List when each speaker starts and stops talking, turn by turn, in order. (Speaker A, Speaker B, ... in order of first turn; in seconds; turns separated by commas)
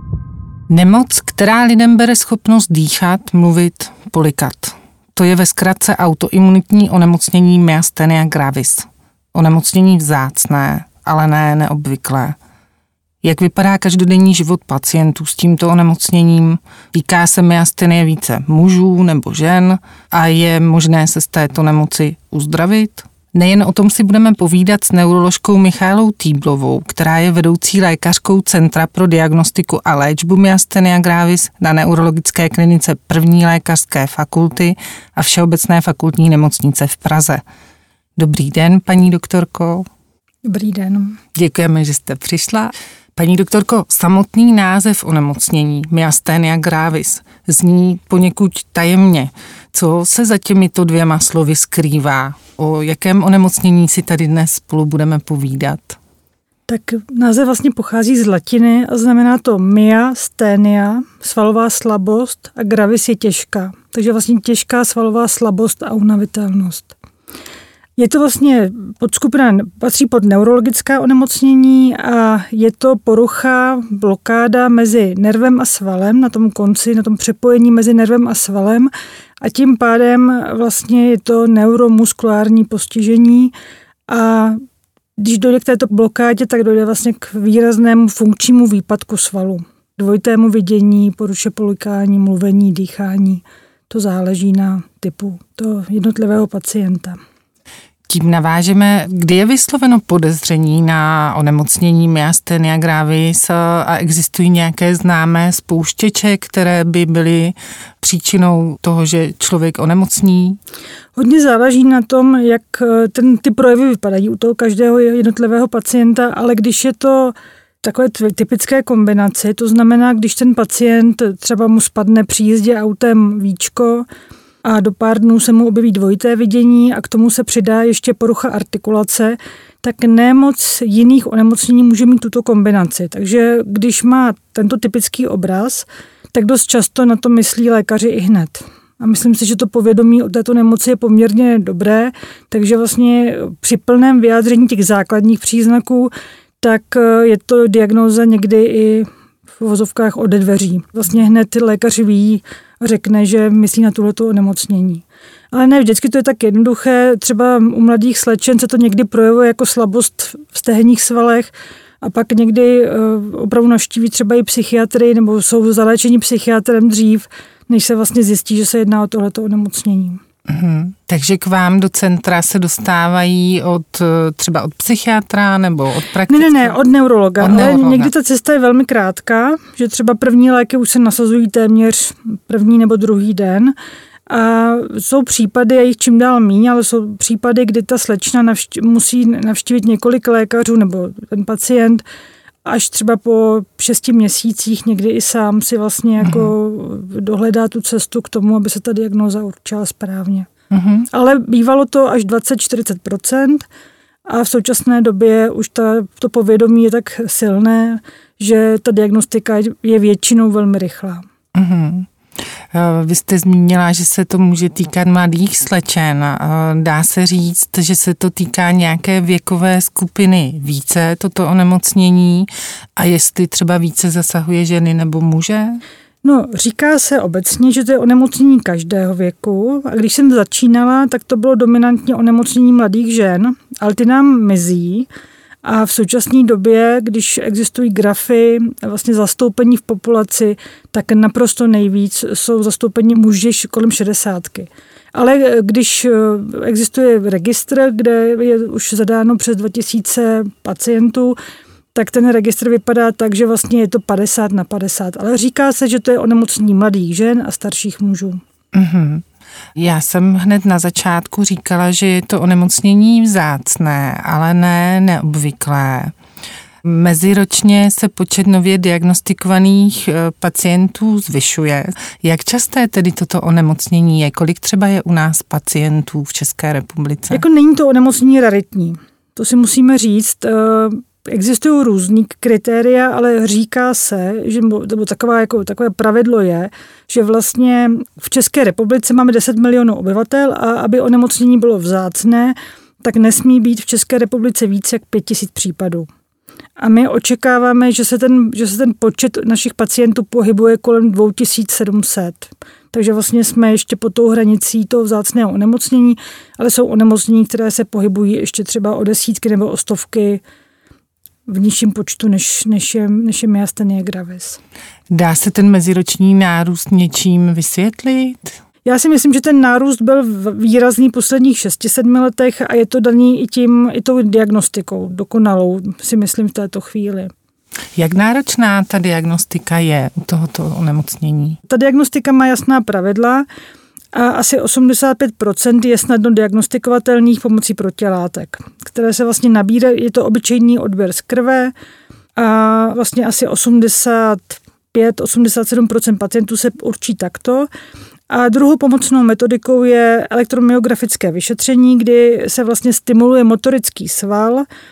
Speaker A: 0.7-12.4, Speaker A: 13.2-37.4, Speaker A: 38.2-39.9, Speaker B: 40.5-41.2, Speaker A: 41.4-56.0, Speaker B: 56.7-66.9, Speaker B: 68.0-83.5, Speaker B: 84.1-84.6, Speaker B: 85.2-97.2, Speaker A: 98.1-110.6, Speaker B: 111.2-124.1, Speaker B: 124.6-170.2, Speaker A: 170.5-176.8, Speaker B: 176.3-183.8, Speaker A: 177.4-178.1, Speaker B: 184.3-192.0, Speaker B: 192.7-200.5, Speaker A: 196.2-196.5, Speaker A: 200.7-201.1, Speaker B: 201.1-203.7, Speaker B: 204.3-211.2, Speaker A: 211.6-212.1, Speaker A: 212.7-225.8, Speaker B: 226.2-235.1, Speaker B: 235.6-251.4, Speaker B: 251.9-258.4, Speaker A: 258.7-259.2, Speaker A: 259.8-266.1, Speaker A: 266.8-277.4, Speaker B: 277.3-296.1, Speaker B: 296.8-310.4, Speaker B: 311.5-314.6, Speaker A: 315.1-318.6, Speaker B: 318.8-327.3, Speaker A: 328.0-331.6, Speaker B: 331.7-333.5, Speaker B: 334.1-341.7, Speaker B: 342.4-347.7, Speaker B: 348.3-354.7